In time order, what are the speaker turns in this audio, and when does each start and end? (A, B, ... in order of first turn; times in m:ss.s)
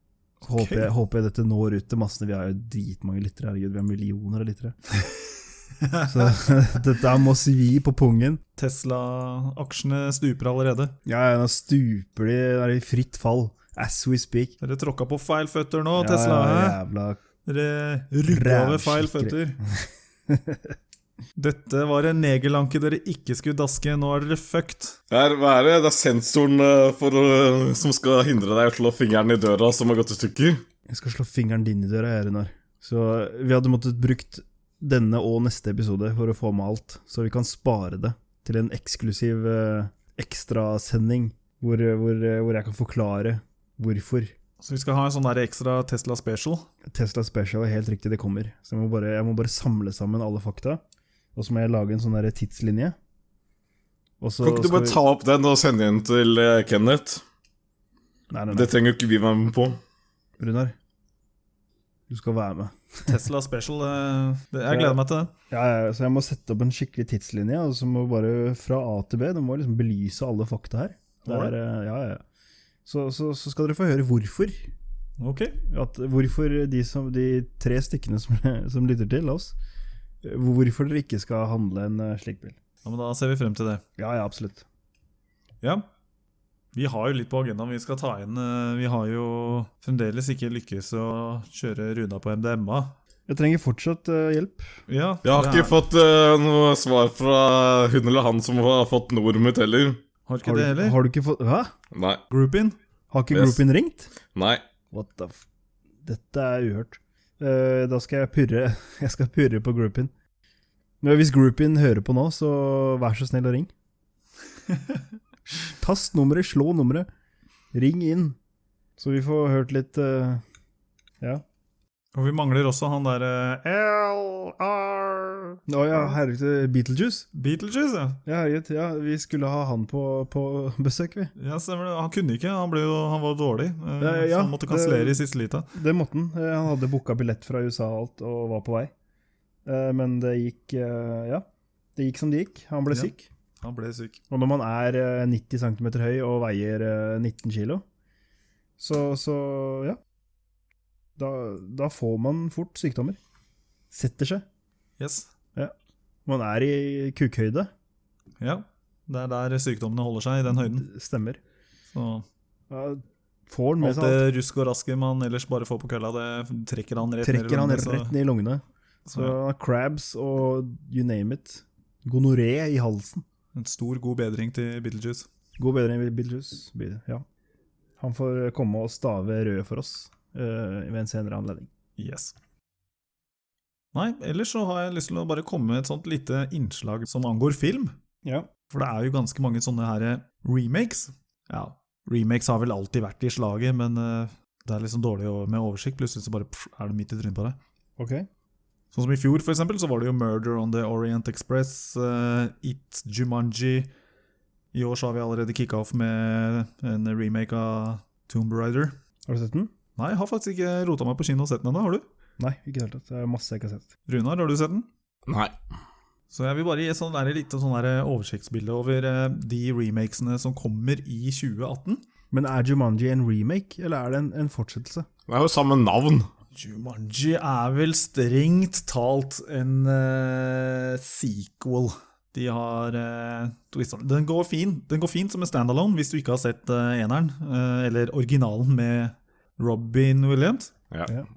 0:00.4-0:00.9 A
0:00.5-0:04.8 B
0:05.0-0:06.5 A
0:06.1-0:08.4 B
0:08.6-0:10.9 A
0:11.0-0:14.5 B
0:14.6-0:16.8 A
0:16.0-0:17.2 B
0:17.4-0:19.6 A
0:18.3-0:20.7 B
0:21.4-0:25.0 A
0:25.1-0:30.6 C
0:30.9-0:44.3 B
0:44.6-0:46.7 A
0:46.8-0:50.8 B
0:51.3-0:53.0 B
0:54.2-0:55.0 B
0:54.4-0:57.2 C
0:58.3-0:58.7 B
0:58.5-0:59.8 C
1:00.4-1:00.7 B
1:02.1-1:03.1 B
1:03.0-1:05.3 A
1:04.7-1:12.2 B
1:11.3-1:11.5 A
1:12.8-1:14.7 B
1:15.2-1:15.6 A
1:15.7-1:19.5 B
1:20.2-1:22.6 B
1:22.8-1:23.8 A
1:24.0-1:24.6 B
1:25.6-1:25.9 A
1:26.7-1:33.0 A
1:33.3-1:34.7 B
1:34.9-1:35.8 A
1:35.2-1:40.0 C
1:40.2-1:41.0 A
1:40.4-1:41.7 B
1:41.9-1:42.2 C
1:42.3-1:42.8 A
1:43.1-1:44.1 B
1:43.3-1:43.6 C
1:44.3-1:44.6 C
1:44.9-1:45.4 B
1:46.0-1:50.1 B
1:51.0-1:53.7 B
1:55.5-1:57.1 B
1:57.7-1:58.4 B
1:59.0-2:00.4 B
2:02.1-2:05.6 A
2:05.7-2:07.3 B
2:07.3-2:08.2 A
2:08.2-2:11.3 B
2:11.4-2:15.7 A
2:14.0-2:18.9 B
2:19.6-2:21.4 B
2:22.0-2:23.2 B
2:22.9-2:24.2 A
2:24.3-2:27.8 B
2:28.8-2:30.0 B
2:31.2-2:33.2 B
2:33.9-2:34.4 B
2:35.0-2:35.3 A
2:36.2-2:37.7 B
2:38.4-2:40.9 A
2:40.7-2:41.4 B
2:41.9-2:42.2 A
2:42.7-2:44.2 B
2:43.8-2:48.1 A
2:47.2-2:48.6 B
2:49.1-2:49.4 A
2:49.1-2:53.2 B
2:53.5-2:55.3 A
2:55.6-2:57.2 B
2:58.0-3:01.7 B
3:02.0-3:02.3 A
3:03.9-3:08.0 A
3:08.7-3:17.6 A
3:18.0-3:18.3 B
3:18.9-3:23.9 A
3:24.7-3:29.0 A
3:29.2-3:29.7 B
3:30.0-3:32.0 A
3:32.4-3:33.9 B
3:34.1-3:34.9 A
3:35.3-3:35.5 C
3:36.3-3:42.0 A
3:42.3-3:45.1 B
3:45.3-3:46.3 C
3:46.5-4:00.7 A